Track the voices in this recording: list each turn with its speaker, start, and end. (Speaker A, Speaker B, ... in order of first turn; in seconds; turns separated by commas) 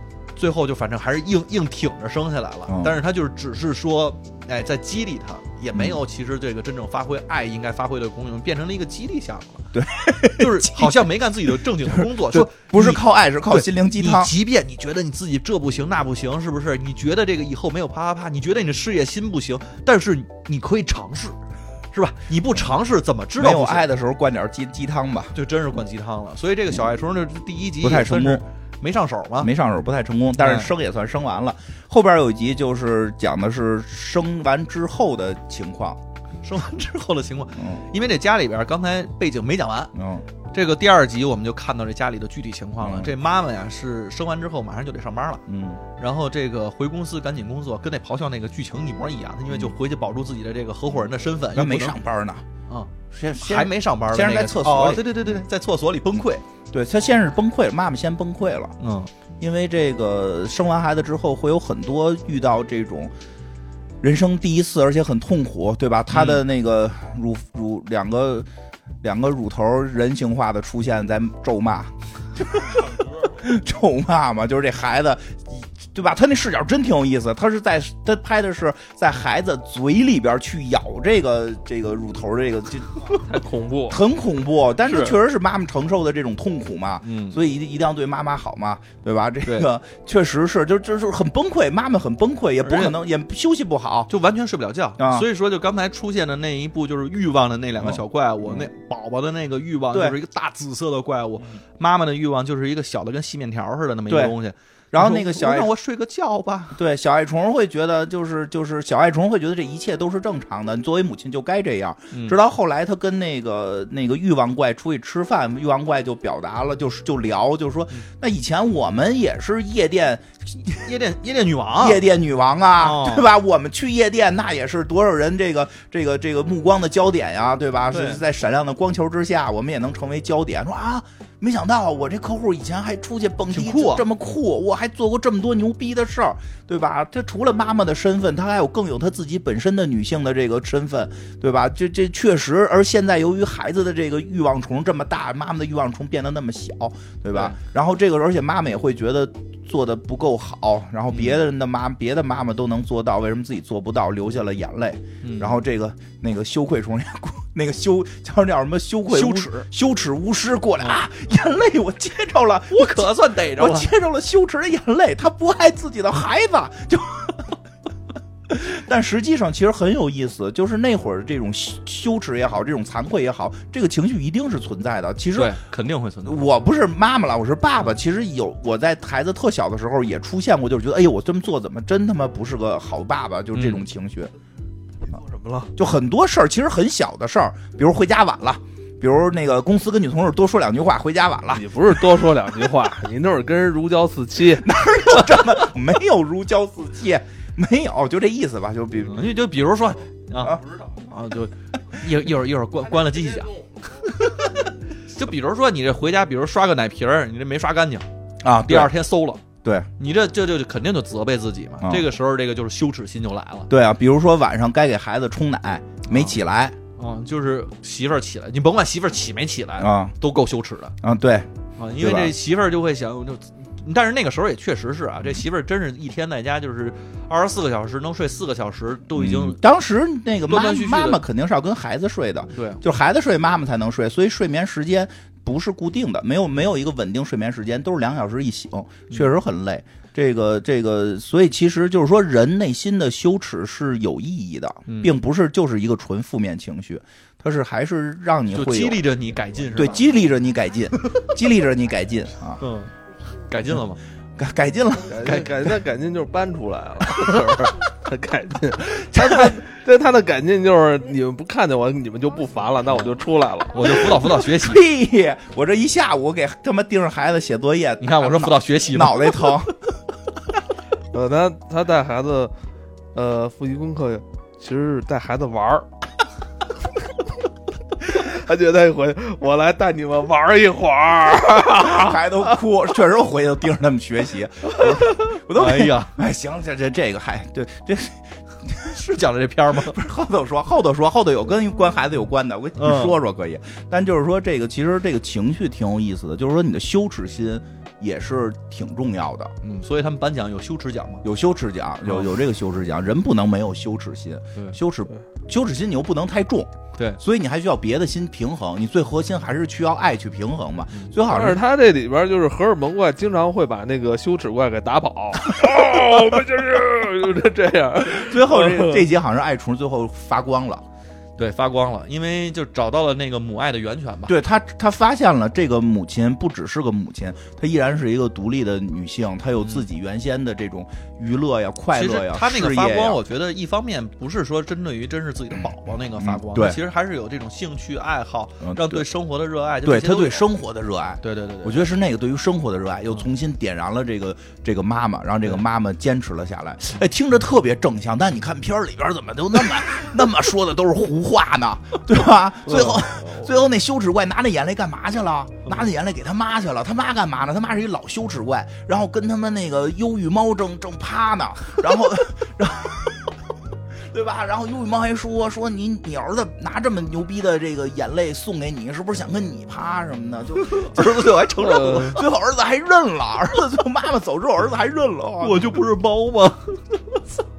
Speaker A: 0.3-9.7, Speaker B: 2.7-3.0, Speaker B: 5.7-6.0, Speaker B: 9.7-14.3, Speaker A: 10.2-21.4, Speaker A: 21.9-23.9, Speaker B: 23.4-25.3, Speaker A: 25.3-29.5, Speaker B: 27.8-28.4, Speaker B: 29.4-36.0, Speaker A: 30.4-30.7, Speaker A: 36.4-39.9, Speaker B: 37.5-37.8, Speaker B: 39.9-40.2, Speaker A: 40.5-45.4, Speaker B: 42.8-43.1, Speaker B: 45.5-45.8, Speaker A: 46.0-52.0, Speaker B: 51.5-52.4, Speaker A: 52.7-56.4, Speaker B: 53.1-55.3, Speaker B: 56.7-58.7, Speaker A: 58.8-59.1, Speaker B: 59.4-63.1, Speaker B: 64.0-68.5, Speaker A: 66.1-66.4, Speaker B: 69.0-83.2, Speaker C: 83.2-84.0, Speaker B: 83.9-94.1, Speaker A: 84.8-85.2, Speaker A: 87.0-87.4, Speaker A: 92.6-93.0, Speaker A: 94.1-106.8, Speaker B: 95.0-95.3, Speaker B: 97.8-98.7, Speaker B: 99.9-100.2, Speaker B: 104.1-104.3, Speaker B: 104.9-105.7, Speaker B: 106.7-120.9, Speaker A: 112.1-112.4, Speaker A: 120.8-122.0, Speaker B: 121.8-167.6, Speaker A: 122.8-123.3, Speaker A: 127.9-128.2, Speaker A: 133.5-134.1, Speaker A: 147.3-147.6, Speaker A: 151.1-151.4, Speaker A: 155.2-155.6, Speaker A: 159.1-159.7, Speaker A: 162.7-163.9, Speaker B: 168.5-175.6, Speaker A: 175.3-176.5, Speaker B: 176.2-184.3, Speaker A: 183.5-183.8, Speaker C: 185.1-185.7, Speaker B: 185.8-191.8, Speaker C: 191.5-194.7, Speaker B: 194.6-199.2, Speaker A: 199.1-208.1, Speaker B: 208.4-208.9, Speaker A: 208.7-209.4, Speaker B: 209.6-209.9, Speaker A: 210.0-213.7, Speaker B: 213.7-216.8, Speaker A: 216.1-216.3, Speaker A: 217.0-220.9, Speaker B: 219.8-220.2, Speaker B: 221.0-222.3, Speaker A: 221.8-229.6, Speaker B: 229.1-249.0, Speaker A: 230.4-231.2, Speaker A: 232.5-232.8, Speaker A: 244.9-245.1, Speaker A: 248.5-250.1, Speaker B: 249.7-252.6, Speaker A: 252.6-252.9, Speaker A: 253.5-254.0, Speaker B: 254.4-255.5, Speaker C: 255.1-264.1, Speaker B: 259.0-259.6, Speaker A: 263.7-264.8, Speaker B: 263.8-269.7, Speaker A: 268.0-269.6, Speaker C: 271.1-272.5, Speaker C: 273.1-275.9, Speaker C: 278.0-282.2, Speaker B: 281.8-289.0, Speaker A: 285.5-286.1, Speaker A: 288.9-289.9, Speaker B: 289.8-299.5, Speaker A: 292.8-293.2, Speaker A: 299.6-301.2, Speaker B: 301.2-311.6, Speaker C: 311.2-319.1, Speaker B: 318.0-320.8, Speaker A: 321.4-324.3, Speaker B: 324.3-333.2, Speaker A: 331.9-340.5, Speaker B: 336.2-336.8, Speaker B: 338.6-339.0, Speaker B: 339.8-363.4, Speaker A: 341.2-341.9, Speaker C: 352.6-353.5, Speaker A: 355.6-355.9, Speaker B: 364.0-371.3, Speaker A: 370.6-372.3, Speaker C: 371.6-372.2, Speaker B: 372.0-375.8, Speaker A: 375.4-377.2